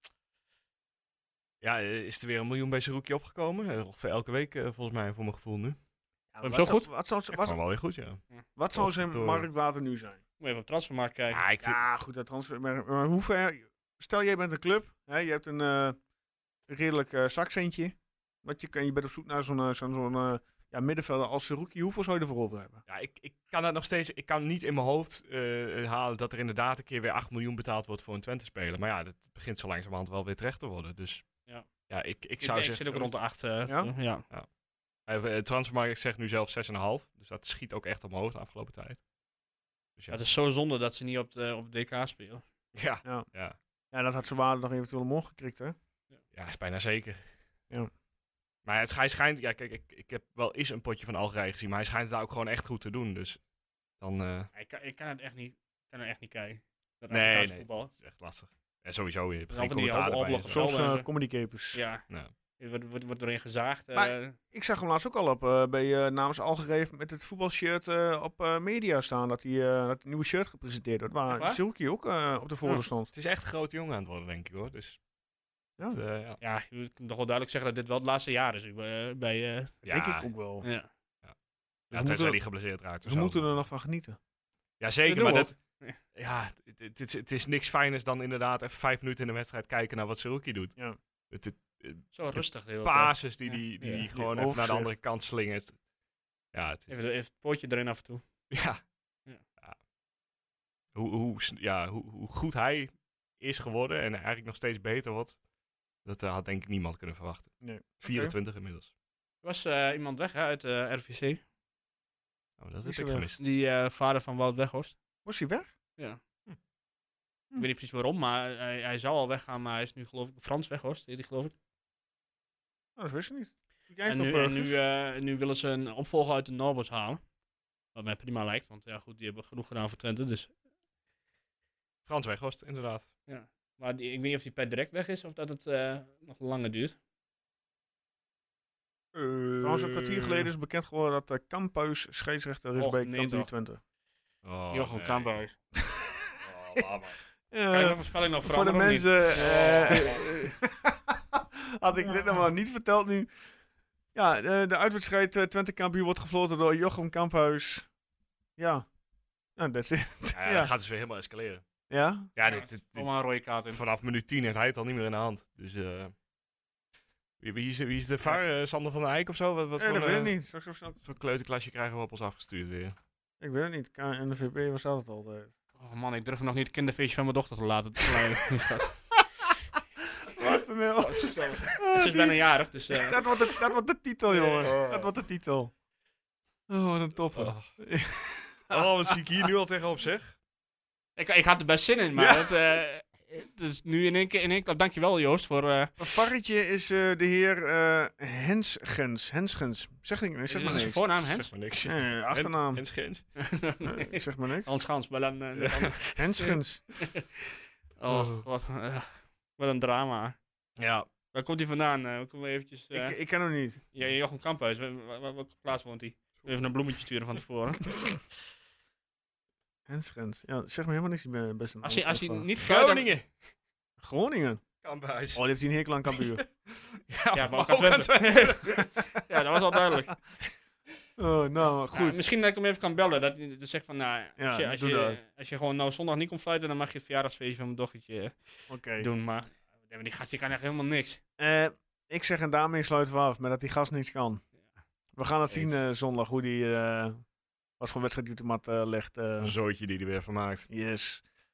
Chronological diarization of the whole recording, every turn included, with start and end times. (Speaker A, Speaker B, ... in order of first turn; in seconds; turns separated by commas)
Speaker A: 1.6-5.8, Speaker B: 6.3-7.6, Speaker C: 6.4-6.9, Speaker A: 7.3-8.2, Speaker B: 8.6-10.2, Speaker A: 8.7-9.5, Speaker C: 10.4-11.4, Speaker A: 11.3-11.8, Speaker B: 11.6-16.0, Speaker B: 16.7-22.8, Speaker A: 22.9-31.3, Speaker A: 31.9-33.1, Speaker C: 32.4-34.2, Speaker A: 35.1-39.0, Speaker C: 40.1-42.4, Speaker A: 42.8-43.6, Speaker B: 43.9-45.8, Speaker A: 46.3-47.3, Speaker A: 48.6-53.4, Speaker A: 54.0-54.5, Speaker C: 54.5-57.9, Speaker A: 57.1-60.6, Speaker C: 59.5-61.1, Speaker B: 60.5-61.8, Speaker C: 61.7-62.1, Speaker C: 62.6-64.3, Speaker B: 63.9-73.1, Speaker C: 71.3-71.6, Speaker A: 73.1-75.0, Speaker A: 75.9-76.4, Speaker C: 76.4-79.8, Speaker A: 79.8-80.3, Speaker B: 79.9-80.7, Speaker C: 80.6-80.9, Speaker A: 81.9-83.5, Speaker B: 81.9-82.4, Speaker B: 83.0-84.2, Speaker A: 84.8-85.5, Speaker C: 85.1-86.0, Speaker A: 86.1-90.8, Speaker A: 91.3-95.8, Speaker C: 92.1-94.3, Speaker B: 94.3-94.9, Speaker A: 96.5-96.9, Speaker C: 96.9-98.2, Speaker A: 98.5-98.8, Speaker A: 100.9-105.4, Speaker A: 106.0-108.9, Speaker B: 107.6-108.3, Speaker C: 109.4-111.4, Speaker A: 112.6-113.4, Speaker B: 112.8-113.3, Speaker C: 113.4-115.0, Speaker B: 115.3-115.7, Speaker C: 117.6-121.5, Speaker B: 123.0-124.8, Speaker C: 124.1-127.2, Speaker C: 127.9-130.5, Speaker A: 132.1-133.1, Speaker C: 133.3-137.0, Speaker A: 139.2-140.5, Speaker B: 139.6-143.8, Speaker C: 142.8-143.5, Speaker A: 144.4-145.3, Speaker C: 144.7-145.5, Speaker A: 146.4-147.2, Speaker B: 147.5-153.3, Speaker C: 147.7-150.4, Speaker B: 154.1-157.9, Speaker B: 158.6-158.9, Speaker B: 159.6-160.7, Speaker A: 160.3-161.6, Speaker B: 161.9-162.3, Speaker A: 162.3-163.1, Speaker C: 162.4-163.8, Speaker A: 163.7-166.1, Speaker A: 167.4-170.3, Speaker B: 169.8-171.0, Speaker A: 171.0-173.0, Speaker B: 173.4-175.5, Speaker C: 175.8-179.1, Speaker B: 180.3-182.3, Speaker C: 180.4-183.2, Speaker B: 182.9-185.7, Speaker C: 184.3-184.8, Speaker A: 184.6-185.1, Speaker B: 186.7-189.5, Speaker A: 187.3-187.7, Speaker A: 188.7-190.4, Speaker C: 191.2-196.0, Speaker A: 192.1-192.6, Speaker B: 196.0-201.0, Speaker C: 200.5-201.5, Speaker A: 200.7-203.2, Speaker B: 201.8-202.8, Speaker C: 203.4-210.4, Speaker B: 203.8-204.7, Speaker A: 205.6-205.9, Speaker B: 206.1-206.8, Speaker A: 208.1-208.4, Speaker A: 210.8-211.1, Speaker C: 211.3-213.2, Speaker B: 212.9-213.8, Speaker C: 213.9-218.0, Speaker A: 216.4-216.7, Speaker B: 219.9-222.5, Speaker C: 221.8-223.1, Speaker A: 222.6-223.3, Speaker B: 224.0-224.6, Speaker A: 224.8-225.4, Speaker B: 225.3-226.4, Speaker A: 226.1-229.0, Speaker C: 227.3-230.2, Speaker B: 231.2-232.2, Speaker C: 231.9-241.2, Speaker B: 234.4-235.2, Speaker B: 238.7-239.1, Speaker B: 241.4-244.4, Speaker B: 245.1-247.2, Speaker A: 245.5-245.8, Speaker B: 247.8-249.6, Speaker A: 249.4-250.7, Speaker B: 250.7-251.2